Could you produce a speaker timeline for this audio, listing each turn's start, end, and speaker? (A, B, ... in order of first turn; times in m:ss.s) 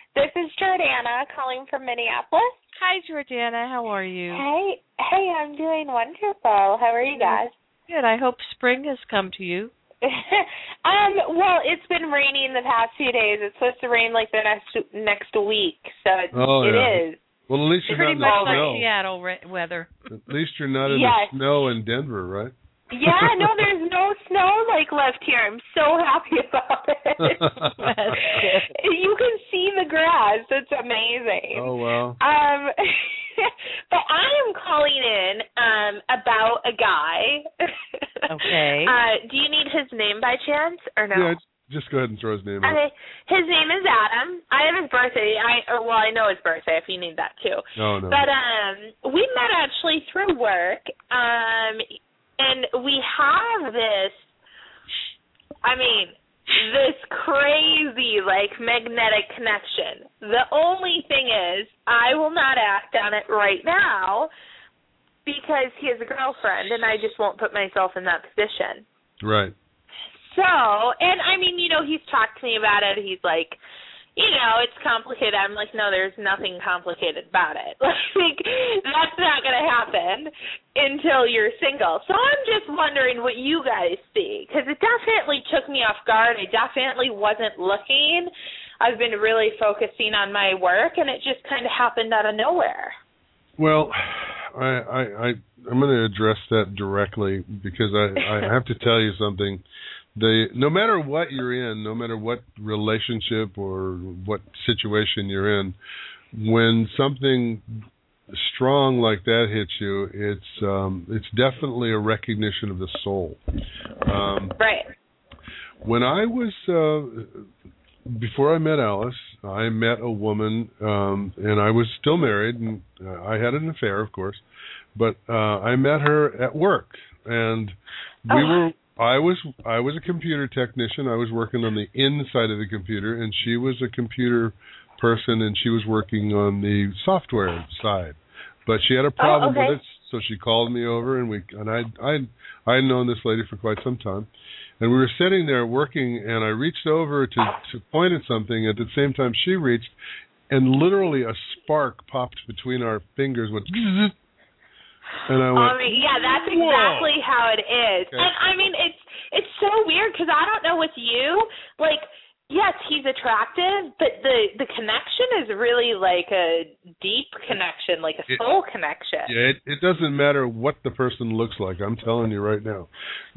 0:00.2-0:02.6 A
0:02.8-0:04.4 B
0:04.3-0:07.5 A
0:07.1-0:09.7 B
0:10.0-0:17.2 A
0:16.3-0:18.8 C
0:17.9-0:19.9 B
0:18.0-0:18.8 A
0:20.1-0:23.6 C
0:20.8-0:21.4 A
0:22.9-0:27.4 A
0:27.2-0:28.2 C
0:27.8-0:28.8 B
0:28.3-0:37.5 A
0:31.5-0:32.2 C
0:38.3-0:39.0 B
0:38.8-0:41.4 A
0:41.1-0:42.8 C
0:42.6-0:54.3 A
0:47.8-0:48.2 C
0:55.6-1:04.3 A
1:05.3-1:08.8 A
1:09.2-1:09.6 C
1:10.2-1:13.6 A
1:14.2-1:33.0 A
1:33.6-1:39.6 C
1:38.2-1:38.5 A
1:40.2-1:45.8 C
1:46.3-1:53.4 C
1:54.0-1:54.6 C
1:54.6-1:54.9 A
1:55.8-1:57.5 C
1:58.1-2:04.4 C
2:05.0-2:24.3 C
2:08.3-2:08.6 A
2:19.2-2:19.8 A
2:24.8-2:30.0 C
2:30.5-2:34.2 C
2:35.3-2:37.2 C
2:35.5-2:49.3 A
2:49.3-2:52.9 C